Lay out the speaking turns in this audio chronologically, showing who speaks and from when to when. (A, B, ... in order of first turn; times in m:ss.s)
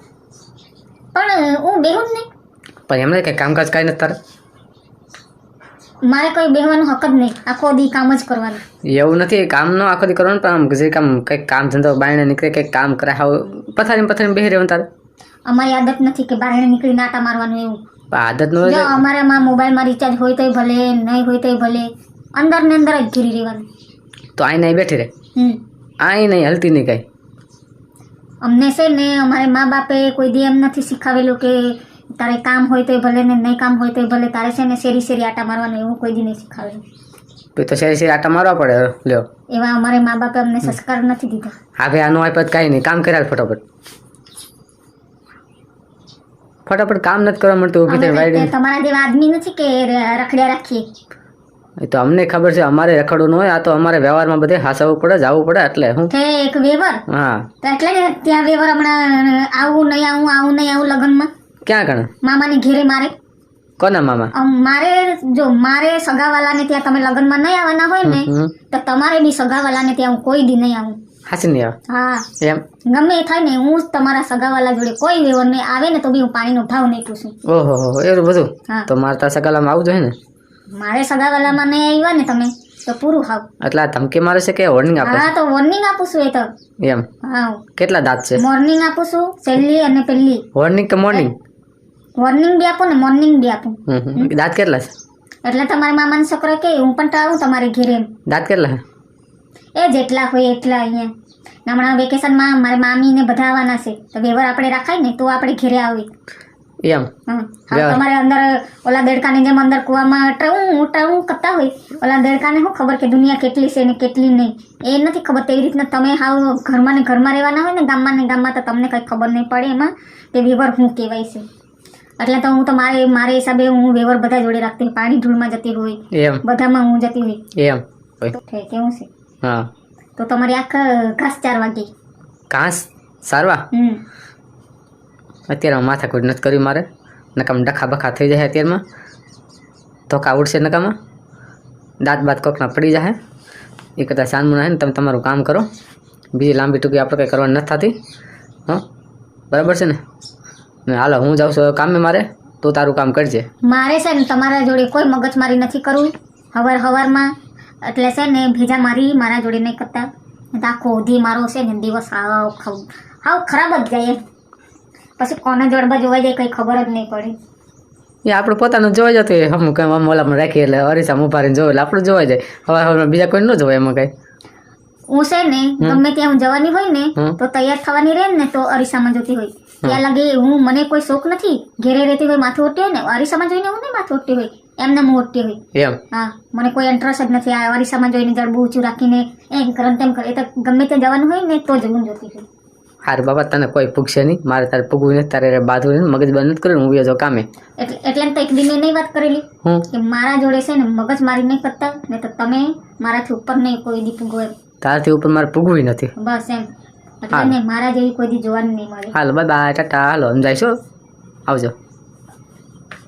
0:01.1-0:02.3 A
0:02.9-0:04.2 B
0:06.1-0:08.6 A
0:08.9-0:14.9 B
0:15.5-0:17.8 A
0:18.1-0:19.0 B
0:18.6-0:23.7 A
0:24.4-0:25.1 B
0:26.0-0:27.0 B
0:28.4-0:36.8 A
0:37.6-0:39.3 B
0:39.5-0:41.6 A
0:41.8-0:43.6 B
0:46.7-0:48.5 B
0:47.9-0:50.9 A
0:51.8-0:56.1 B
0:56.1-0:57.0 A
0:57.1-0:57.5 B
0:57.6-1:01.3 A
1:01.6-1:02.1 B
1:02.2-1:03.1 A
1:03.8-1:04.3 B
1:04.4-1:11.0 A
1:08.0-1:08.5 B
1:11.3-1:11.8 B
1:11.9-1:12.2 A
1:12.4-1:12.6 B
1:12.9-1:17.4 A
1:17.5-1:20.2 B
1:20.7-1:23.4 A
1:23.6-1:25.3 B
1:25.0-1:26.5 A
1:26.8-1:27.1 B
1:27.2-1:27.6 A
1:27.8-1:28.4 B
1:28.4-1:30.4 A
1:30.6-1:31.3 B
1:32.2-1:34.3 A
1:33.9-1:34.9 B
1:35.4-1:38.1 A
1:38.3-1:38.8 B
1:39.8-1:41.1 A
1:41.7-1:46.1 A
1:46.8-1:47.1 B
1:47.3-2:01.5 A
1:47.7-1:48.0 B
2:02.2-2:07.4 A
2:06.1-2:06.4 B
2:07.6-2:08.4 B
2:08.4-2:09.1 A
2:09.4-2:09.7 B
2:10.2-2:11.9 A
2:12.5-2:13.7 B
2:13.7-2:14.0 A
2:15.5-2:18.8 B
2:20.1-2:21.0 B
2:22.0-2:23.2 B
2:24.0-2:25.7 B
2:26.3-2:28.0 B
2:29.5-2:30.0 B
2:30.9-2:33.5 B
2:33.7-2:37.3 A
2:37.8-2:44.2 A
2:45.2-2:47.4 A
2:48.3-2:54.1 B
2:55.1-3:05.6 A
3:05.8-3:06.0 B
3:06.1-3:12.5 A
3:13.0-3:17.5 B
3:17.8-3:24.5 A
3:24.8-3:26.1 B
3:26.2-3:26.7 A
3:27.2-3:29.2 A
3:29.1-3:30.8 B
3:31.5-3:31.7 B